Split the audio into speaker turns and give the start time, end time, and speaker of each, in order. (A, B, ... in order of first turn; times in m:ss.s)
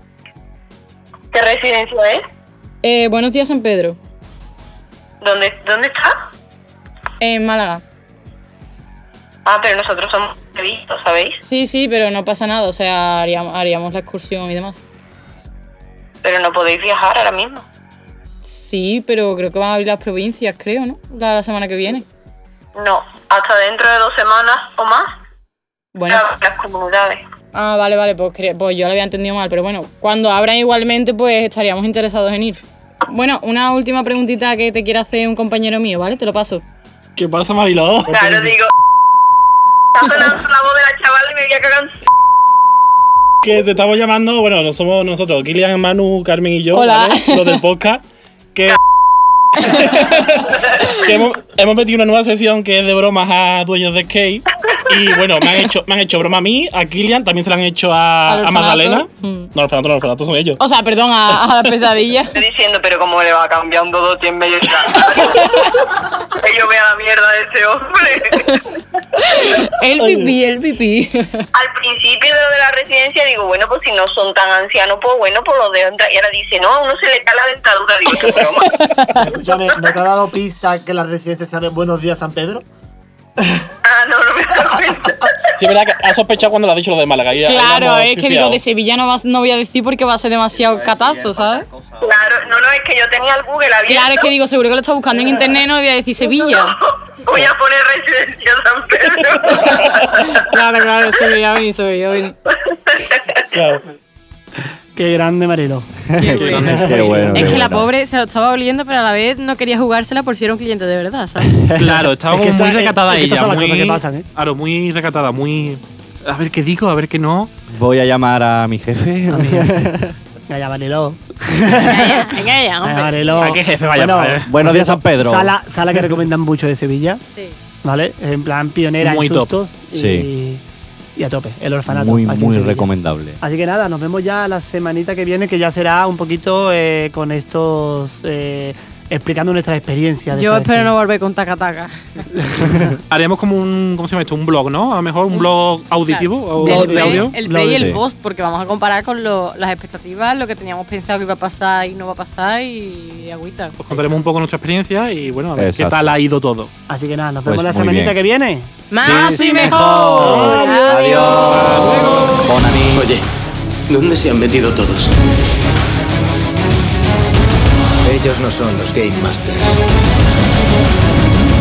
0:01.3-0:02.2 A
0:02.8-0:04.0 B
0:05.2-0:06.2 A
0:07.2-0:07.8 B
0:09.4-0:11.4 A
0:11.4-0:14.8 B
0:16.2-0:17.6 A
0:18.4-0:22.0 B
0:22.8-0:25.1 A
0:25.9-0:26.3 B
0:26.1-0:27.2 A
0:27.5-0:36.6 B
0:37.2-0:38.5 C
0:38.1-0:38.7 A
0:39.9-0:41.9 A
0:43.4-0:48.0 C
0:46.7-0:47.6 B
0:49.6-1:00.6 C
0:49.6-0:50.0 B
0:50.7-0:51.0 B
0:58.3-0:59.5 B
1:00.6-1:02.2 B
1:01.4-1:02.3 D
1:02.3-1:05.6 A
1:05.0-1:05.6 B
1:06.3-1:08.5 A
1:09.3-1:11.4 B
1:09.8-1:10.3 D
1:11.5-1:18.7 A
1:18.2-1:19.2 B
1:19.2-1:22.6 E
1:23.4-1:23.6 E
1:23.8-1:25.5 A
1:25.5-1:28.6 C
1:27.4-1:31.7 B
1:32.0-1:34.3 A
1:33.9-1:36.8 B
1:36.4-1:40.0 A
1:39.5-1:42.3 B
1:42.5-1:43.5 A
1:43.5-1:43.8 C
1:44.9-1:45.9 E
1:46.2-1:51.5 D
1:46.2-1:47.0 C
1:46.5-1:47.6 E
1:46.6-1:47.9 F
1:51.5-1:52.0 F
1:51.7-1:57.5 C
1:52.3-1:54.2 E
1:57.7-2:00.1 F
1:59.3-1:59.9 E
2:00.5-2:07.2 E
2:01.8-2:03.3 D
2:03.4-2:04.5 C
2:04.4-2:06.1 F
2:07.8-2:10.6 E
2:09.0-2:09.5 C
2:09.9-2:10.3 F
2:11.2-2:12.9 E
2:11.9-2:13.4 F
2:13.4-2:20.9 E
2:20.3-2:22.2 D
2:22.4-2:23.0 E
2:23.1-2:27.3 C
2:26.0-2:33.8 D
2:26.5-2:28.0 E
2:27.7-2:28.0 F
2:33.8-2:36.7 C
2:33.9-2:34.2 E
2:35.6-2:36.0 F
2:36.9-2:38.8 E
2:37.4-2:38.2 F
2:38.9-2:41.5 D
2:38.9-2:43.1 F
2:40.1-2:40.9 E
2:41.4-2:42.5 C
2:42.9-2:43.2 G
2:43.9-2:45.1 G
2:48.0-2:49.8 G